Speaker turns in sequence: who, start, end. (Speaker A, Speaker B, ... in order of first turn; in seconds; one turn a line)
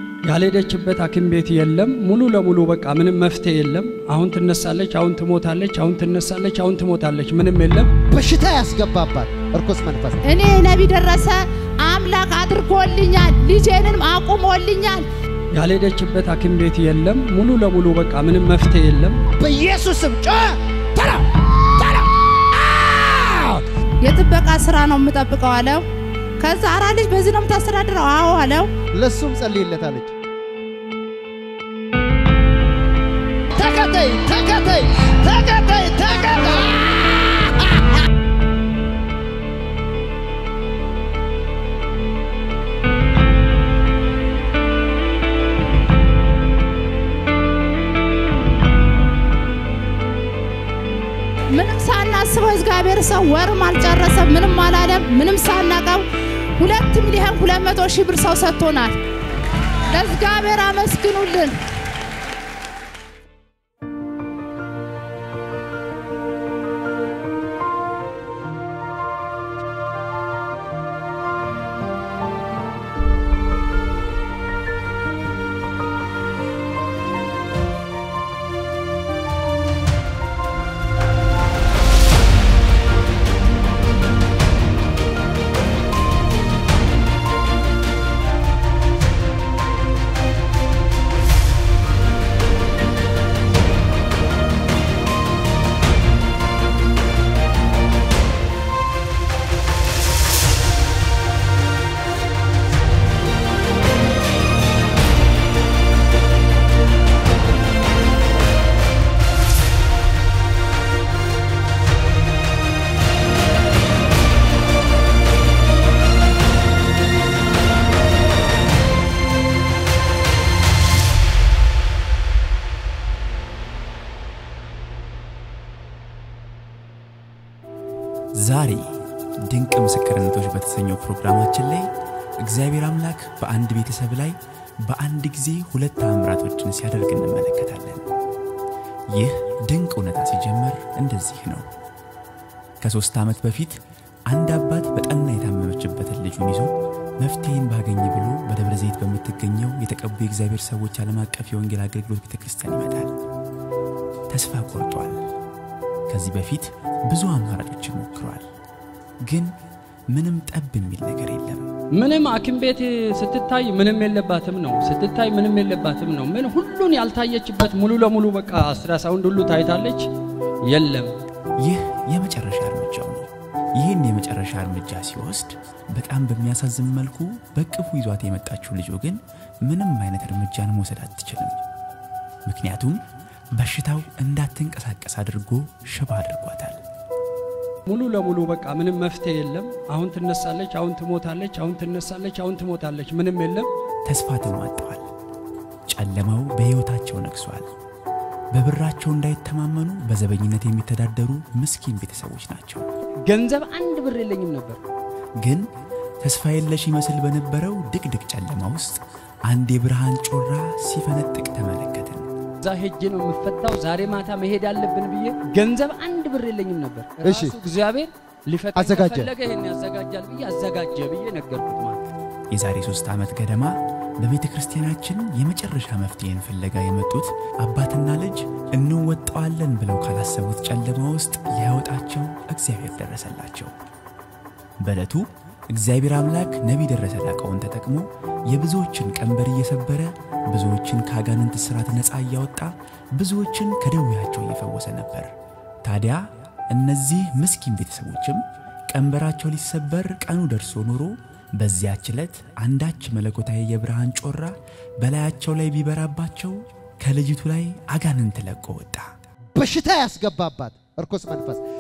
Speaker A: 0.2-7.9
Speaker B: 8.1-10.2
Speaker C: 10.2-15.1
Speaker A: 15.5-19.2
Speaker B: 19.4-23.6
Speaker C: 24.0-25.8
Speaker C: 26.4-28.7
Speaker B: 28.9-30.1
Speaker B: 33.5-37.9
Speaker C: 51.5-56.0
Speaker C: 56.6-59.0
Speaker C: 59.9-61.5
Speaker D: 128.3-128.9
Speaker D: 129.5-131.9
Speaker D: 132.4-138.1
Speaker D: 139.1-141.7
Speaker D: 142.8-153.1
Speaker D: 154.3-155.2
Speaker D: 156.1-158.4
Speaker D: 159.2-159.5
Speaker D: 160.1-161.7
Speaker A: 161.9-170.1
Speaker A: 170.6-171.1
Speaker D: 171.6-181.6
Speaker D: 182.4-183.0
Speaker D: 183.6-186.8
Speaker A: 187.8-193.7
Speaker D: 194.1-195.1
Speaker D: 195.9-197.7
Speaker D: 198.5-202.9
Speaker A: 203.3-204.8
Speaker D: 206.2-212.3
Speaker A: 212.6-222.0
Speaker B: 217.2-217.6
Speaker B: 218.7-219.3
Speaker D: 222.5-233.7
Speaker D: 234.8-245.3
Speaker D: 245.8-259.1
Speaker B: 259.5-261.6